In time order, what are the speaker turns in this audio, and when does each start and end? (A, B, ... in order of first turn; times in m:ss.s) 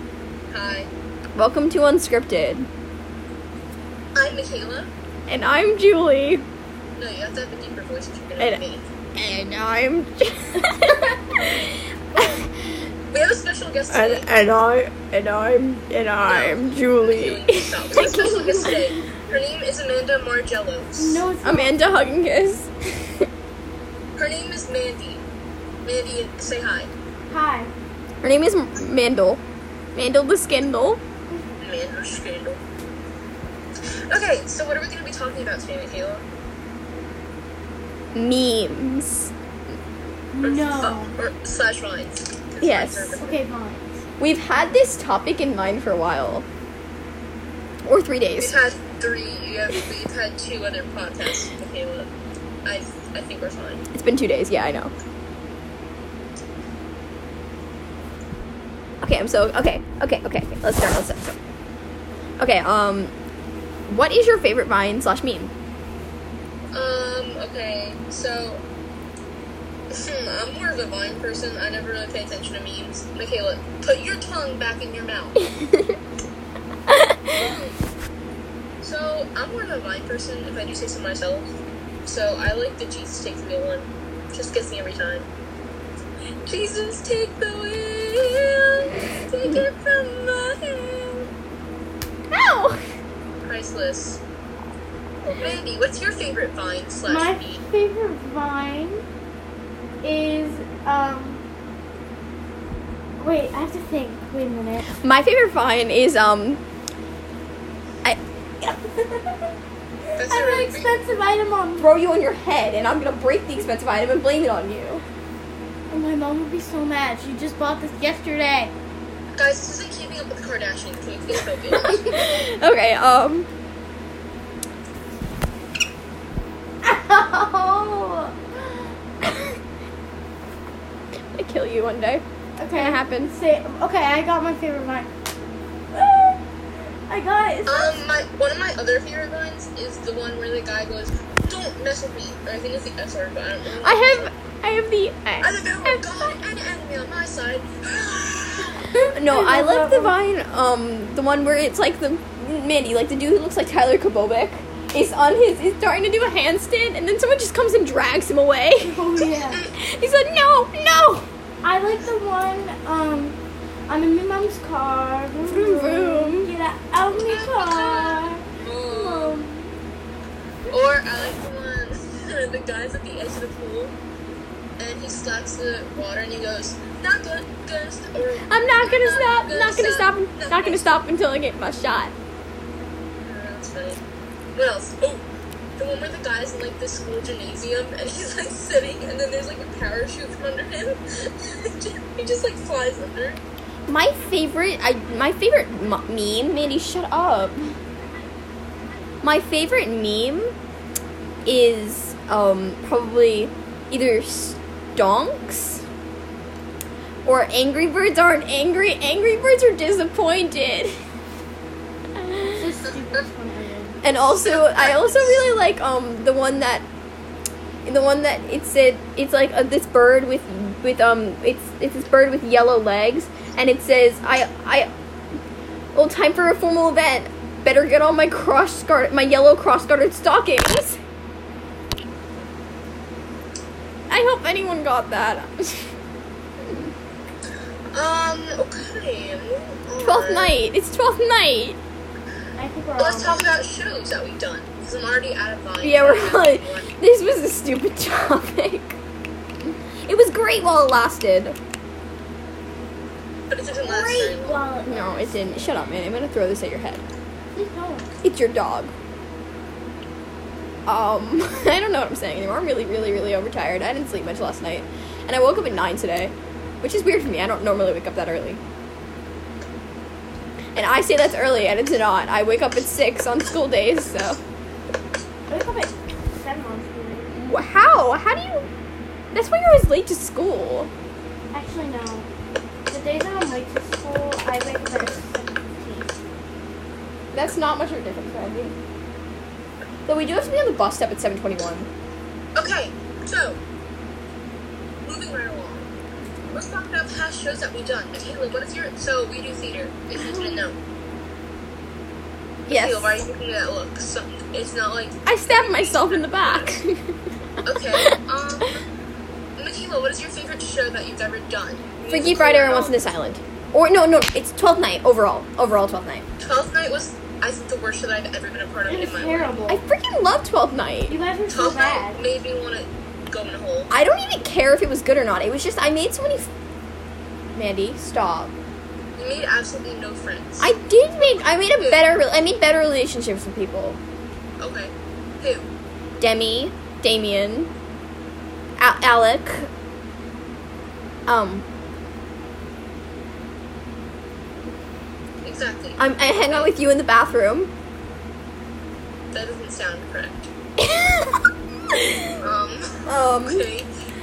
0:00.5-0:00.9 A
0:01.4-0:02.6 B
0:04.1-0:04.9 A
0:05.3-0:06.4 B
0:07.0-0:08.8 A
0:09.1-0:12.4 B
0:13.1-0:14.3 A
0:13.9-0:18.8 B
0:16.2-0:21.2 A
0:21.0-0:21.8 C
0:21.4-0:23.3 B
0:24.2-0:25.2 A
0:25.8-0:26.9 A
0:27.3-0:27.7 C
0:28.2-0:29.4 B
0:29.9-0:31.0 B
0:31.6-0:32.6 A
0:34.1-0:36.2 A
0:38.1-0:39.3 B
0:40.3-0:41.2 C
0:40.4-0:43.4 A
0:42.6-0:43.2 B
0:43.2-0:44.0 C
0:44.2-0:46.4 B
0:47.8-0:48.6 B
0:48.4-0:52.1 A
0:52.6-0:53.8 A
0:53.9-0:54.9 B
0:59.0-1:01.4 B
1:02.4-1:03.1 B
1:03.9-1:05.5 B
1:06.7-1:08.6 A
1:09.9-1:15.4 A
1:15.6-1:15.9 B
1:16.9-1:17.3 B
1:18.8-1:21.5 A
1:22.0-1:25.3 A
1:26.4-1:31.3 A
1:32.3-1:32.8 B
1:33.4-1:34.2 A
1:35.3-1:37.6 A
1:37.0-1:39.0 C
1:40.0-1:41.4 C
1:43.2-1:44.9 C
1:45.0-1:46.6 B
1:48.0-1:48.7 B
1:48.8-1:49.3 C
1:50.2-1:51.9 C
1:50.2-1:51.0 A
1:51.8-1:55.0 B
1:55.9-1:58.7 C
1:59.4-2:02.3 A
2:01.8-2:03.5 B
2:06.8-2:08.9 C
2:11.3-2:12.2 B
2:12.6-2:15.1 C
2:12.7-2:13.4 B
2:15.9-2:16.4 C
2:17.1-2:18.0 C
2:17.6-2:24.3 A
2:23.8-2:26.3 B
2:25.4-2:28.8 A
2:29.0-2:30.1 C
2:29.2-2:41.3 B
2:38.8-2:39.7 C
2:39.4-2:39.7 A
2:41.6-2:49.7 C
2:45.4-2:46.5 B
2:47.1-2:49.4 A
2:50.7-2:53.9 A
2:54.8-3:00.9 A
2:58.4-3:02.1 B
3:03.2-3:04.0 A
3:04.5-3:05.2 A
3:05.8-3:13.4 A
3:13.9-3:17.7 B
3:19.2-3:20.5 B
3:21.4-3:25.8 B
3:27.2-3:30.9 B
3:32.2-3:32.6 B
3:32.5-3:34.0 C
3:34.0-3:36.8 B
3:34.2-3:35.5 A
3:37.8-3:44.9 B
3:45.9-3:51.0 B
3:54.1-3:55.9 B
3:57.9-4:00.6 A
4:00.0-4:01.8 B
4:02.6-4:03.4 C
4:03.0-4:06.9 A
4:05.8-4:09.0 B
4:10.0-4:11.6 B
4:13.5-4:14.7 A
4:13.8-4:15.9 C
4:14.8-4:17.0 B
4:17.5-4:18.1 C
4:18.2-4:18.9 B
4:20.8-4:28.6 B
4:30.7-4:34.4 B
4:35.5-4:37.3 C
4:37.3-4:38.7 B
4:39.3-4:40.9 B
4:41.5-4:42.3 C
4:42.9-4:46.1 C
4:47.3-4:48.7 B
4:50.1-4:51.9 B
4:52.6-4:53.6 A
4:55.0-4:55.9 A
4:56.5-5:00.8 A
5:00.2-5:00.6 B
5:02.7-5:03.2 B
5:02.7-5:06.8 A
5:05.2-5:07.1 B
5:07.6-5:08.7 A
5:09.6-5:13.1 A
5:12.1-5:16.2 B
5:16.4-5:19.6 A
5:18.9-5:19.8 C
5:19.7-5:21.1 B
5:21.1-5:22.2 C
5:21.5-5:23.9 A
5:23.9-5:26.5 B
5:27.5-5:28.5 B
5:29.2-5:32.2 A
5:30.6-5:34.0 B
5:34.6-5:35.6 A
5:36.2-5:37.7 B
5:38.8-5:39.7 B
5:41.3-5:41.6 B
5:45.4-5:46.7 A
5:46.0-5:47.7 B
5:49.3-5:50.5 A
5:50.8-5:52.3 B
5:52.4-5:53.9 A
5:53.0-5:53.7 B